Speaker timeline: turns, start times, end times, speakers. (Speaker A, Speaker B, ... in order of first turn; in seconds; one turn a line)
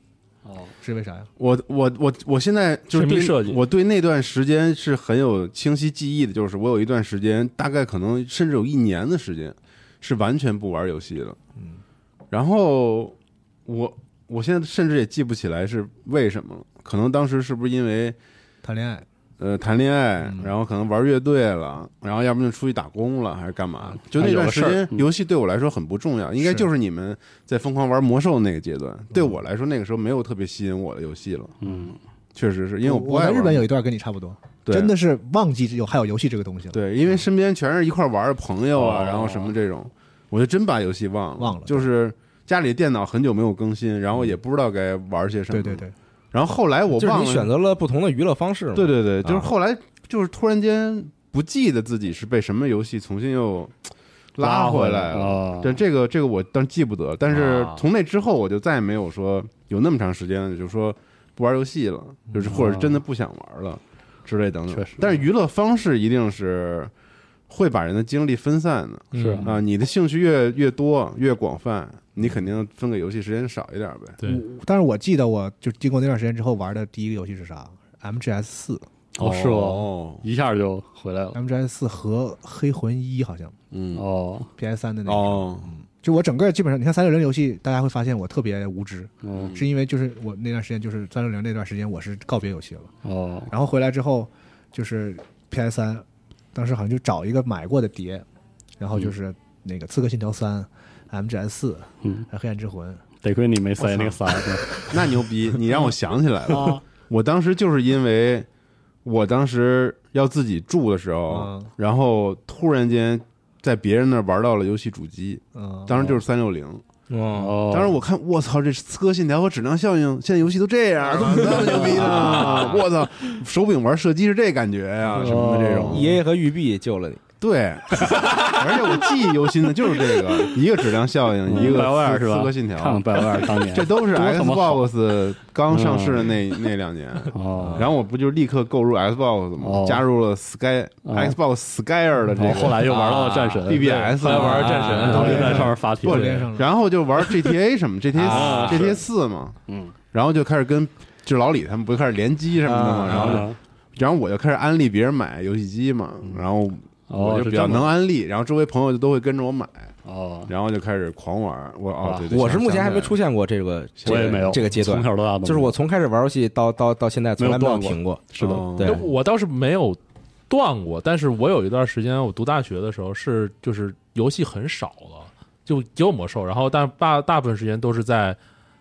Speaker A: 0.5-0.7
Speaker B: 0.8-1.3
Speaker C: 1.4-11.4
Speaker D: 2.9-3.6
Speaker C: 12.3-13.2
Speaker C: 13.7-18.2
Speaker B: 18.6-19.1
Speaker C: 19.4-31.6
Speaker B: 20.3-20.5
Speaker A: 24.1-25.1
Speaker B: 26.4-26.7
Speaker A: 31.6-32.0
Speaker C: 32.4-33.7
Speaker B: 32.8-36.8
Speaker C: 34.6-34.9
Speaker C: 36.7-47.5
Speaker A: 38.7-39.5
Speaker B: 41.4-41.9
Speaker B: 45.5-45.9
Speaker E: 46.9-49.5
Speaker C: 48.8-53.8
Speaker C: 54.4-66.9
Speaker A: 54.4-55.8
Speaker E: 57.3-57.8
Speaker A: 62.5-63.0
Speaker A: 64.7-65.0
Speaker C: 67.5-74.2
Speaker D: 69.1-69.5
Speaker A: 69.1-69.6
Speaker B: 74.2-78.8
Speaker A: 79.2-81.4
Speaker C: 79.2-80.2
Speaker B: 81.3-83.6
Speaker C: 83.7-84.0
Speaker A: 84.0-84.5
Speaker B: 84.6-92.9
Speaker C: 85.0-85.7
Speaker A: 89.2-89.5
Speaker C: 89.3-89.7
Speaker A: 93.0-93.5
Speaker B: 93.5-98.2
Speaker B: 98.8-103.0
Speaker A: 103.2-104.9
Speaker C: 104.8-108.5
Speaker A: 106.5-106.8
Speaker C: 109.0-116.8
Speaker B: 111.3-111.7
Speaker B: 115.5-116.2
Speaker E: 117.1-117.6
Speaker A: 117.3-118.0
Speaker C: 117.7-126.1
Speaker B: 121.1-122.4
Speaker A: 121.8-122.5
Speaker E: 122.2-122.8
Speaker A: 125.1-126.1
Speaker E: 125.9-127.2
Speaker C: 127.4-143.0
Speaker A: 131.4-134.9
Speaker A: 135.7-136.3
Speaker A: 137.3-137.9
Speaker A: 139.6-140.0
Speaker A: 141.1-141.4
Speaker A: 142.3-144.4
Speaker E: 142.8-145.6
Speaker C: 143.7-145.5
Speaker D: 143.8-146.5
Speaker A: 145.0-146.3
Speaker B: 145.1-146.7
Speaker C: 146.0-149.6
Speaker E: 148.2-148.9
Speaker A: 148.2-149.0
Speaker A: 149.7-149.9
Speaker C: 150.1-159.9
Speaker B: 152.7-153.2
Speaker E: 153.1-153.4
Speaker A: 153.1-153.6
Speaker A: 157.1-157.9
Speaker A: 160.1-160.5
Speaker C: 160.5-163.2
Speaker A: 162.0-162.3
Speaker E: 162.3-169.1
Speaker C: 164.0-164.5
Speaker A: 164.1-165.8
Speaker A: 167.4-168.7
Speaker C: 168.4-169.0
Speaker D: 168.8-170.0
Speaker D: 170.5-178.4